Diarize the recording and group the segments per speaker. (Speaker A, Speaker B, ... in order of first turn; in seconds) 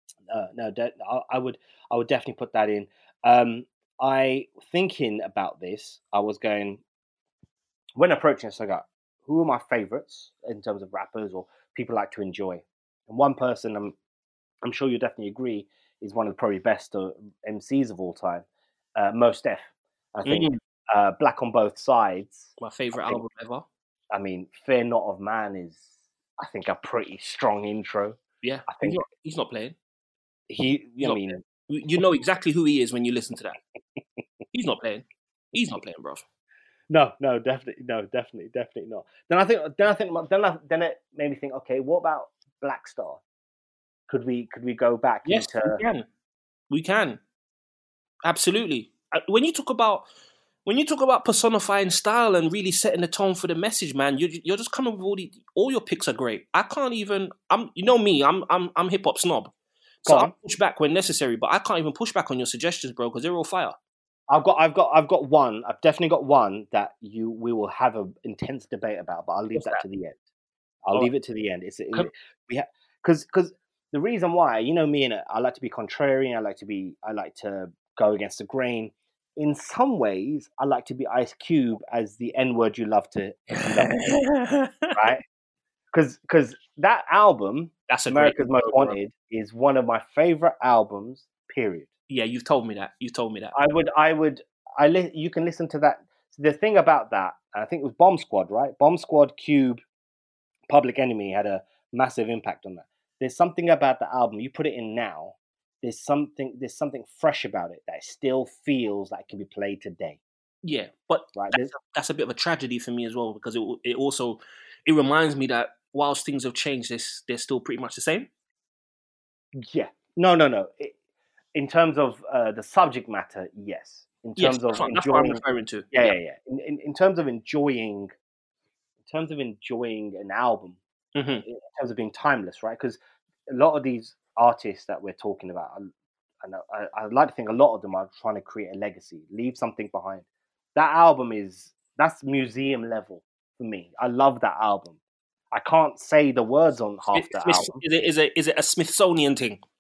Speaker A: 0.3-6.8, 8.0-14.0, 14.6-23.2, 24.1-25.9, 26.4-29.0, 30.5-31.4, 36.9-43.2, 44.1-45.8, 60.1-60.3, 64.3-70.2, 70.9-84.2, 85.0-85.2, 85.9-91.9, 93.5-99.8, 100.7-110.2, 111.3-111.7, 119.6-121.0, 121.5-128.1, 129.1-130.8, 131.4-135.9, 136.4-145.0, 145.5-147.8
Speaker B: 20.2-20.6, 22.6-23.7, 28.4-29.8, 31.0-33.6, 34.5-36.2, 45.2-46.1, 46.7-47.2, 48.2-50.1, 50.6-63.8, 69.5-69.8, 83.5-85.0, 87.9-89.0, 92.1-93.5, 110.6-118.3, 124.4-126.1, 131.2-131.4, 147.1-149.6